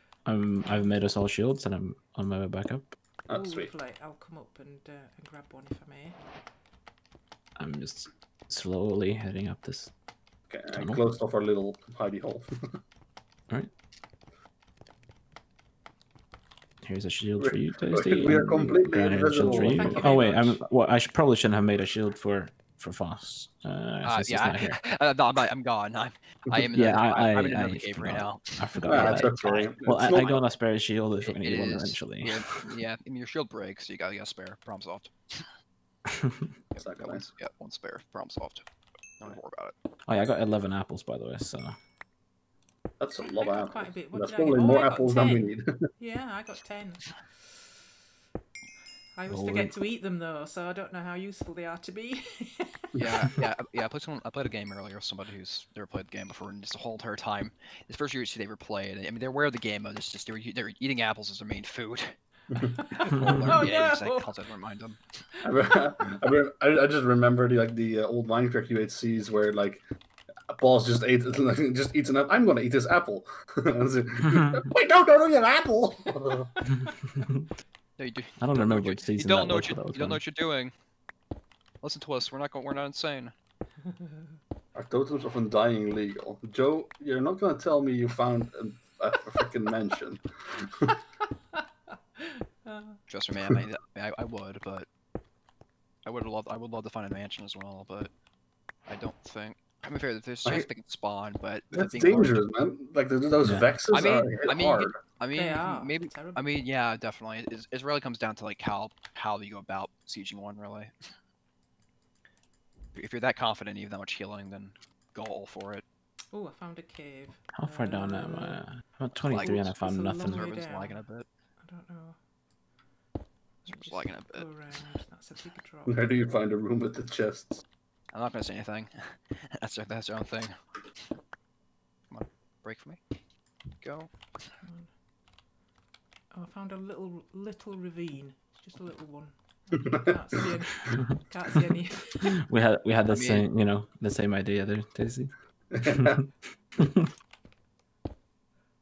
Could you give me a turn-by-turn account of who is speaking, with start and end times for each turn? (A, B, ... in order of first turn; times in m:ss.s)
0:00.2-0:03.0 A
0:03.3-0:03.7 B
0:03.3-0:06.2 C
0:07.6-0:09.9 A
0:10.5-0:12.5 B
0:10.7-0:11.0 A
0:16.8-0:24.8 A
0:17.4-0:20.2 B
0:19.4-0:20.6 C
0:24.0-0:29.8 D
0:26.7-0:32.4 A
0:28.8-0:30.4 B
0:31.2-0:35.5 D
0:36.2-0:36.5 A
0:36.7-0:38.6 D
0:36.8-0:37.2 B
0:39.2-0:39.8 D
0:40.1-0:41.8 A
0:43.0-0:45.9 B
0:43.2-0:47.6 C
0:49.2-0:53.3 C
0:49.3-0:49.7 A
0:53.0-1:02.2 D
1:02.6-1:04.3 C
1:03.0-1:05.2 D
1:03.1-1:03.7 A
1:05.4-1:09.8 B
1:10.5-1:16.7 B
1:14.3-1:14.6 A
1:17.2-1:17.4 A
1:18.0-1:20.7 D
1:18.4-1:20.2 A
1:21.8-1:23.3 D
1:24.8-1:31.0 B
1:32.2-1:33.0 C
1:33.1-1:34.9 D
1:36.0-1:38.1 D
1:38.9-1:42.4 D
1:41.7-1:45.0 B
1:43.4-1:43.7 A
1:43.9-1:50.9 D
1:45.3-1:46.5 C
1:52.9-1:55.8 D
1:56.3-1:58.6 C
1:57.5-2:00.5 A
1:59.3-2:01.3 D
1:59.3-2:01.0 C
2:01.6-2:02.2 C
2:03.6-2:04.7 D
2:03.6-2:06.1 C
2:05.9-2:07.6 B
2:08.1-2:10.6 D
2:12.1-2:13.0 D
2:13.8-2:14.6 D
2:14.6-2:14.9 C
2:16.3-2:22.4 C
2:19.8-2:20.4 B
2:22.2-2:26.0 A
2:23.1-2:23.4 D
2:25.7-2:26.2 B